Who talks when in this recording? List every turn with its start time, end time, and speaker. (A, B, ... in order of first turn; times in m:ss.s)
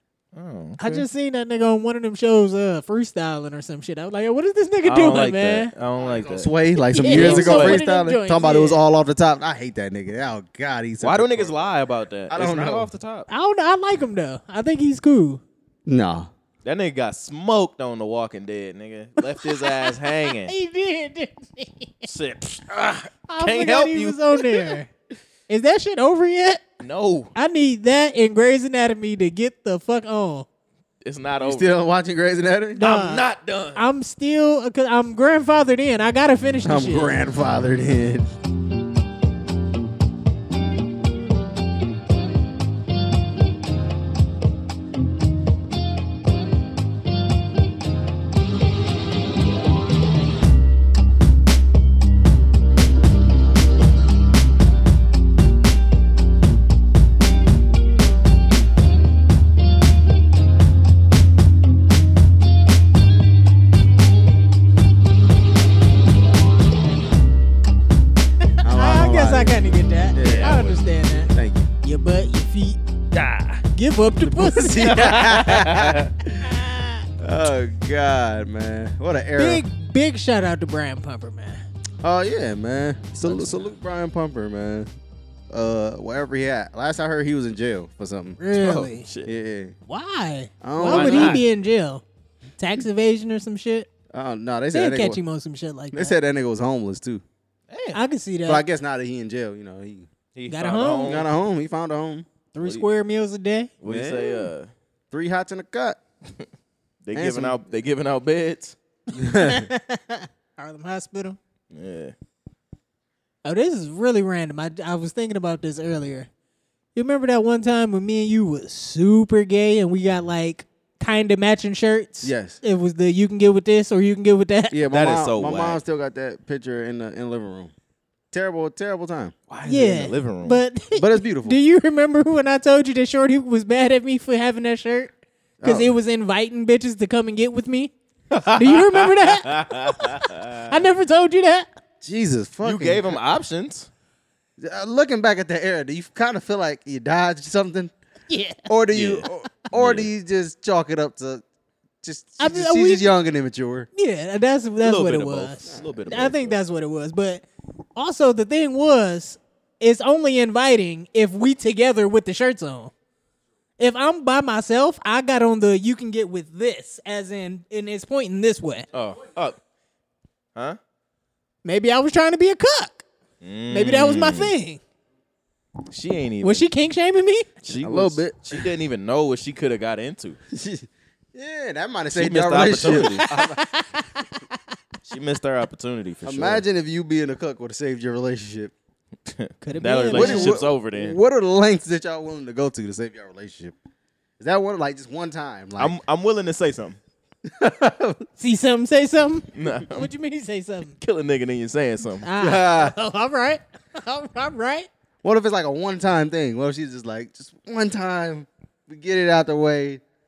0:00.3-0:01.0 A
0:00.8-0:05.7 B
0:04.8-0:06.5 A
0:06.0-0:11.7 C
0:06.8-0:08.8 B
0:07.1-0:07.8 A
0:11.0-0:13.3 A
0:12.3-0:12.9 C
0:13.3-0:15.4 B
0:15.9-0:16.3 C
0:16.6-0:20.5 A
0:19.4-0:22.1 B
0:22.0-0:24.6 A
0:23.3-0:24.9 B
0:25.5-0:26.6 B
0:26.8-0:27.3 A
0:27.4-0:30.4 B
0:31.0-0:31.7 A
0:31.4-0:32.8 C
0:32.8-0:37.2 B
0:32.8-0:33.8 A
0:36.6-0:38.3 C
1:08.6-1:11.3 B
1:08.6-1:11.7 C
1:10.2-1:10.6 A
1:11.8-1:12.8 B
1:13.1-1:13.6 A
1:13.7-1:15.0 B
1:14.2-1:16.6 C
1:14.8-1:16.1 A
1:16.4-1:17.1 B
1:17.2-1:19.6 C
1:19.4-1:21.6 B
1:22.0-1:24.9 C
1:25.5-1:28.4 C
1:28.4-1:29.1 B
1:28.5-1:29.3 A
1:29.2-1:29.7 C
1:29.9-1:32.0 B
1:30.6-1:31.4 C
1:30.9-1:31.4 A
1:32.6-1:33.9 B
1:34.1-1:35.2 C
1:34.7-1:36.1 B
1:35.9-1:37.2 C
1:37.7-1:38.0 A
1:37.9-1:38.6 B
1:38.4-1:40.1 C
1:40.3-1:41.2 A
1:40.5-1:41.2 B
1:41.0-1:42.3 C
1:42.5-1:43.7 B
1:42.6-1:42.8 A
1:43.8-1:44.7 A
1:43.9-1:44.5 C
1:45.1-1:46.0 C
1:47.0-1:48.8 A
1:47.1-1:47.6 C
1:49.2-1:49.7 C
1:49.2-1:51.4 B
1:51.7-1:52.1 A
1:53.4-1:56.3 B
1:56.9-2:04.8 B
2:02.2-2:02.6 C
2:04.7-2:07.7 C
2:04.9-2:05.8 A
2:08.3-2:09.3 C
2:09.5-2:10.6 A
2:09.6-2:17.9 B
2:10.9-2:11.6 C
2:15.6-2:15.9 C
2:18.3-2:20.8 A
2:18.5-2:21.7 B
2:22.0-2:23.2 C
2:22.6-2:23.9 A
2:24.6-2:27.9 C
2:28.3-2:28.7 B
2:28.7-2:31.4 C
2:28.9-2:30.1 A
2:32.0-2:33.9 C
2:32.4-2:33.1 B
2:33.9-2:37.4 B
2:34.8-2:36.6 A
2:35.7-2:36.0 C
2:38.0-2:42.9 B
2:43.8-2:48.9 B
2:48.9-2:49.6 A
2:51.6-2:53.0 B
2:53.4-2:54.5 A
2:53.7-2:54.8 B
2:55.9-2:56.7 A
2:56.4-2:57.5 B
2:57.6-3:00.4 A
2:57.8-2:58.7 C
3:00.5-3:03.6 C
3:02.1-3:03.3 A
3:02.8-3:04.2 B
3:05.0-3:06.6 A
3:06.2-3:08.7 C
3:09.2-3:11.2 A
3:09.6-3:10.6 B
3:10.1-3:13.8 C
3:14.4-3:15.9 C
3:15.8-3:17.0 A
3:17.5-3:18.2 C
3:18.4-3:21.0 B
3:19.5-3:20.1 A
3:21.0-3:22.3 A
3:22.2-3:24.9 B
3:22.4-3:22.9 C
3:25.2-3:30.0 C